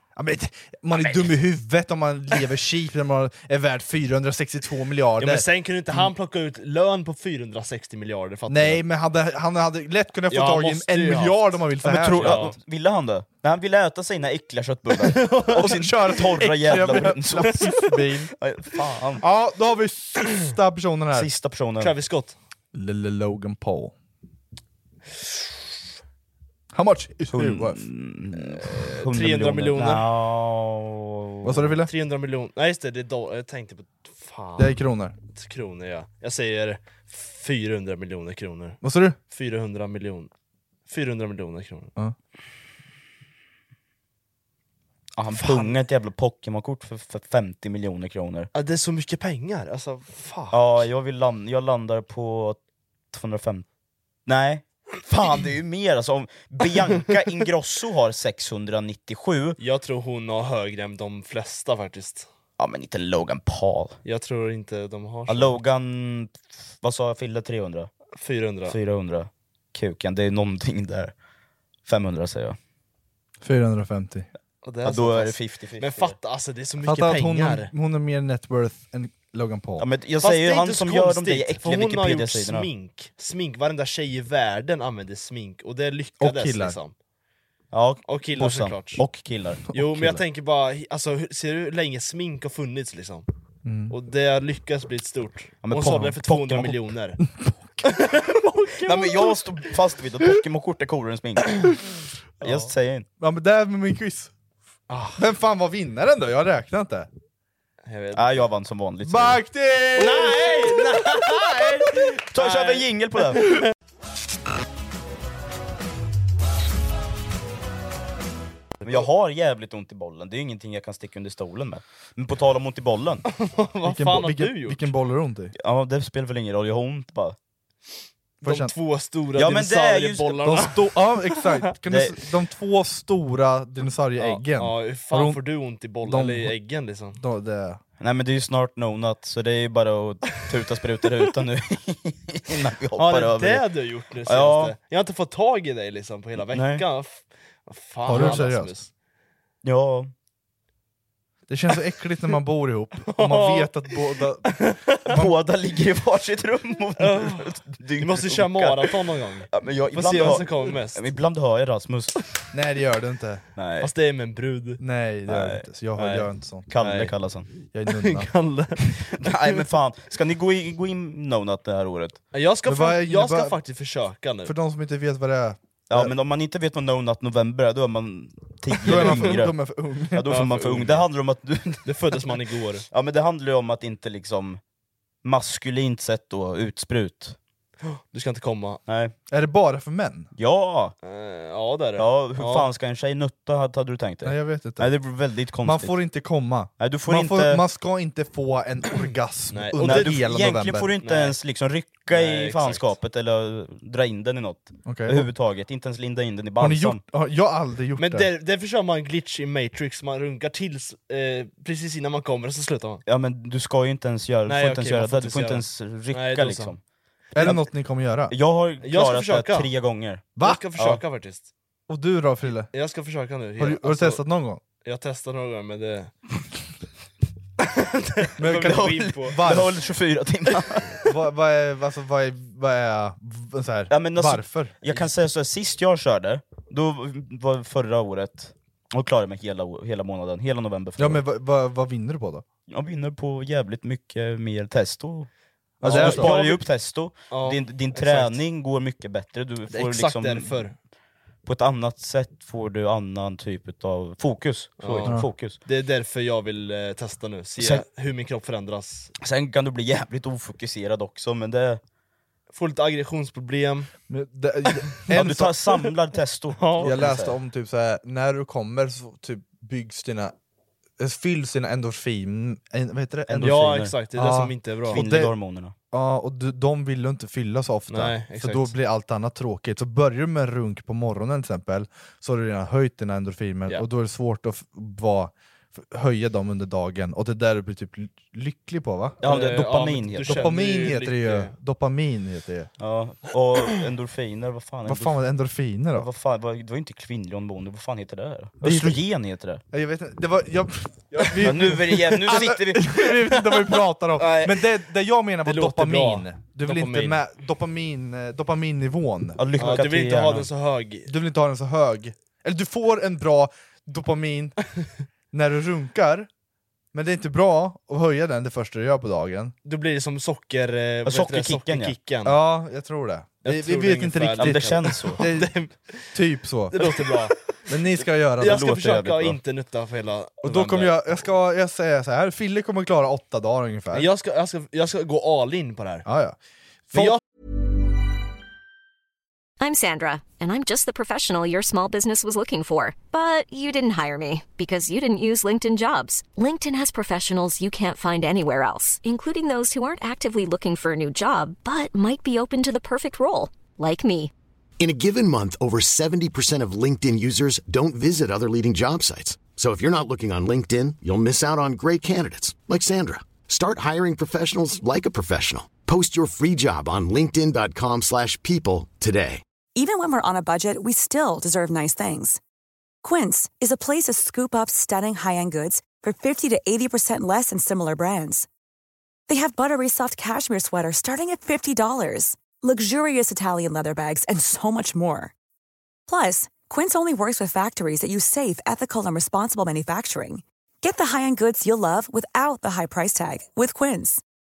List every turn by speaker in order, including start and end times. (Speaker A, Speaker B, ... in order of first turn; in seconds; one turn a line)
Speaker A: 0.2-5.5
Speaker B: 5.2-8.8
Speaker A: 8.5-12.5
Speaker B: 10.3-12.6
Speaker C: 11.8-19.2
Speaker B: 14.9-15.9
Speaker A: 15.6-18.3
Speaker A: 19.2-21.3
Speaker C: 21.1-21.9
Speaker B: 21.8-22.4
Speaker A: 22.7-23.9
Speaker A: 26.7-27.8
Speaker C: 27.3-31.6
Speaker B: 28.4-30.1
Speaker A: 31.4-31.9
Speaker B: 31.9-34.8
Speaker A: 34.6-35.1
Speaker B: 35.3-40.3
Speaker A: 38.8-39.2
Speaker B: 40.9-41.9
Speaker C: 45.2-48.5
Speaker B: 45.4-45.7
Speaker B: 48.5-50.9
Speaker C: 50.5-52.6
Speaker C: 53.1-53.6
Speaker C: 54.3-59.6
Speaker B: 59.6-62.3
Speaker C: 62.6-64.0
Speaker B: 64.0-65.6
Speaker C: 65.3-67.9
Speaker B: 68.2-68.8
Speaker C: 68.7-71.1
Speaker C: 71.8-72.6
Speaker A: 73.4-74.3
Speaker B: 74.6-77.7
Speaker C: 74.8-76.2
Speaker A: 76.8-79.8
Speaker C: 79.8-82.7
Speaker B: 80.2-86.9
Speaker A: 86.2-86.8
Speaker C: 87.7-89.8
Speaker B: 88.1-89.0
Speaker B: 89.7-93.3
Speaker A: 93.7-93.9
Speaker B: 93.9-97.2
Speaker C: 95.6-96.8
Speaker B: 97.8-99.4
Speaker C: 98.8-101.7
Speaker B: 102.4-102.7
Speaker C: 102.4-103.1
Speaker A: 103.2-104.3
Speaker B: 104.9-105.3
Speaker A: 105.2-107.1
Speaker B: 107.9-108.5
Speaker C: 108.1-109.4
Speaker A: 109.0-111.0
Speaker B: 110.0-113.7
Speaker C: 112.3-113.6
Speaker C: 118.8-123.2
Speaker B: 123.3-124.9
Speaker A: 123.8-125.5
Speaker C: 125.6-127.3
Speaker B: 128.4-131.7
Speaker A: 128.4-128.7
Speaker C: 129.4-130.6
Speaker A: 130.4-135.4
Speaker C: 131.9-132.2
Speaker B: 134.2-137.2
Speaker A: 136.0-136.5
Speaker A: 137.2-137.8
Speaker C: 138.0-143.7
Speaker B: 143.0-148.9
Speaker C: 144.3-144.8
Speaker C: 146.5-146.9
Speaker A: 148.1-148.7
Speaker C: 148.1-148.5
Speaker C: 149.6-150.1
Speaker A: 151.5-155.3
Speaker B: 153.1-155.2
Speaker C: 155.1-159.0
Speaker B: 157.0-161.0
Speaker C: 159.5-162.2
Speaker A: 162.5-163.4
Speaker C: 163.6-163.9
Speaker B: 163.8-164.8
Speaker A: 164.8-166.7
Speaker C: 165.3-165.7
Speaker B: 166.0-167.1
Speaker C: 166.7-167.5
Speaker A: 167.7-168.3
Speaker B: 167.9-169.6
Speaker C: 169.2-172.2
Speaker B: 172.3-174.5
Speaker A: 172.7-173.6
Speaker A: 174.4-176.1
Speaker C: 175.9-179.6
Speaker B: 178.8-179.4
Speaker A: 178.8-180.4
Speaker C: 180.1-182.2
Speaker B: 180.3-181.0
Speaker B: 181.9-182.9
Speaker C: 182.9-184.6
Speaker C: 185.2-187.4
Speaker B: 187.8-188.8
Speaker C: 188.9-189.1
Speaker A: 189.3-190.3
Speaker C: 190.4-190.9
Speaker B: 191.0-192.7
Speaker C: 192.0-195.9
Speaker A: 194.2-194.9
Speaker A: 195.6-200.9
Speaker C: 196.8-197.6
Speaker B: 198.9-200.3
Speaker C: 199.8-207.0
Speaker B: 201.0-201.4
Speaker B: 202.1-202.9
Speaker A: 204.9-205.3
Speaker A: 206.6-208.3
Speaker B: 208.0-213.0
Speaker C: 213.1-216.8
Speaker B: 214.5-216.8
Speaker A: 217.3-218.3
Speaker C: 217.4-217.7
Speaker C: 218.3-221.0
Speaker B: 218.8-219.7
Speaker A: 220.4-220.6
Speaker B: 220.4-221.5
Speaker A: 221.9-222.7
Speaker B: 222.7-224.2
Speaker A: 223.6-224.6
Speaker B: 224.8-226.1
Speaker B: 227.6-229.4
Speaker A: 228.4-229.7
Speaker C: 228.6-231.0
Speaker A: 231.1-234.8
Speaker C: 233.9-241.2
Speaker A: 241.0-242.4
Speaker C: 242.7-245.3
Speaker C: 245.8-250.6
Speaker B: 245.8-246.6
Speaker A: 245.8-246.4
Speaker B: 247.3-248.4
Speaker B: 249.7-250.7
Speaker C: 251.4-255.6
Speaker B: 254.8-259.1
Speaker C: 257.6-257.9
Speaker C: 259.2-261.8
Speaker B: 262.5-263.9
Speaker A: 264.1-265.6
Speaker C: 265.1-267.4
Speaker B: 266.6-267.0
Speaker A: 266.8-270.4
Speaker A: 271.0-273.6
Speaker C: 273.3-274.0
Speaker B: 273.4-275.1
Speaker A: 274.1-275.3
Speaker C: 274.9-275.7
Speaker A: 275.9-289.2
Speaker B: 277.9-278.7
Speaker C: 289.2-290.6
Speaker B: 289.2-291.5
Speaker A: 290.3-292.7
Speaker C: 292.8-295.2
Speaker A: 294.9-296.1
Speaker C: 295.9-299.6
Speaker A: 298.6-299.0
Speaker A: 299.7-309.4
Speaker B: 301.1-301.7
Speaker C: 301.4-302.9
Speaker B: 303.3-304.7
Speaker B: 305.4-307.2
Speaker C: 309.4-310.5
Speaker B: 309.6-311.1
Speaker A: 311.1-314.6
Speaker A: 315.3-316.3
Speaker A: 316.9-319.6
Speaker B: 319.6-322.4
Speaker C: 321.1-321.9
Speaker A: 322.2-325.5
Speaker B: 323.4-326.1
Speaker C: 324.4-325.3
Speaker A: 326.1-326.9
Speaker B: 326.7-327.4
Speaker A: 327.7-328.6
Speaker B: 328.4-331.2
Speaker C: 328.4-329.4
Speaker A: 330.4-334.1
Speaker B: 333.9-336.1
Speaker A: 336.1-336.4
Speaker A: 336.9-337.2
Speaker B: 336.9-337.2
Speaker D: 339.6-354.3
Speaker E: 354.8-369.4
Speaker F: 369.8-372.4
Speaker F: 373.0-378.5
Speaker F: 379.3-385.3
Speaker F: 386.1-394.2